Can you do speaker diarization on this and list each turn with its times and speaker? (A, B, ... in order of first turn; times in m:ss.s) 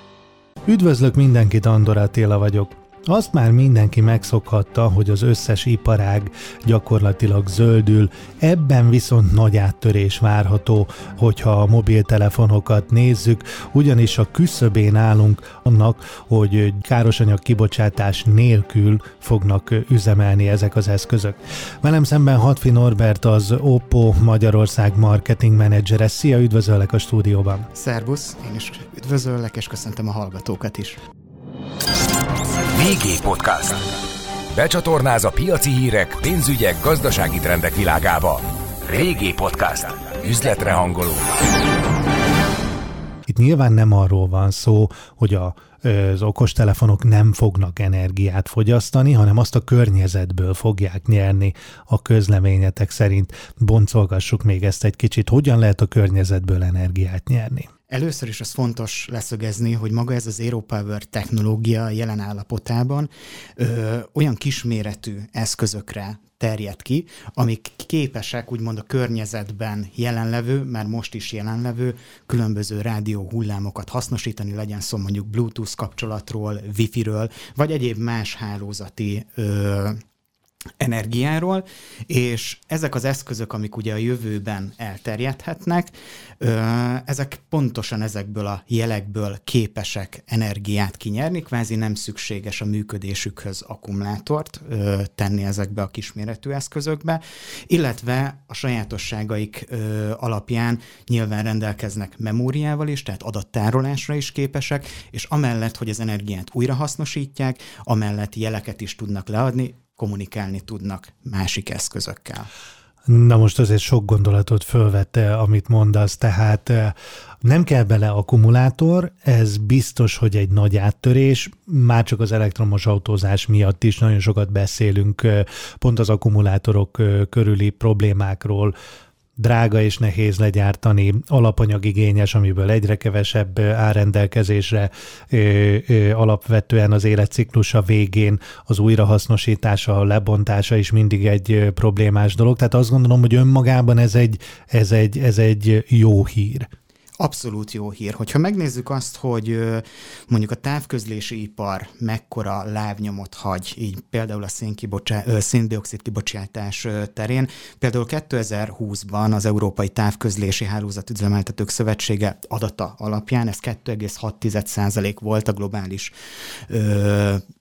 0:00.6-0:27.7 A
0:27.7-0:31.0 B
0:32.7-0:33.8 C
0:34.5-0:41.3 C
0:43.3-0:57.7 A
0:57.9-1:20.0 B
1:20.8-1:52.5 B
1:53.0-2:08.7 A
2:09.4-2:26.7 A
2:27.2-2:46.1 B
2:46.7-2:47.4 B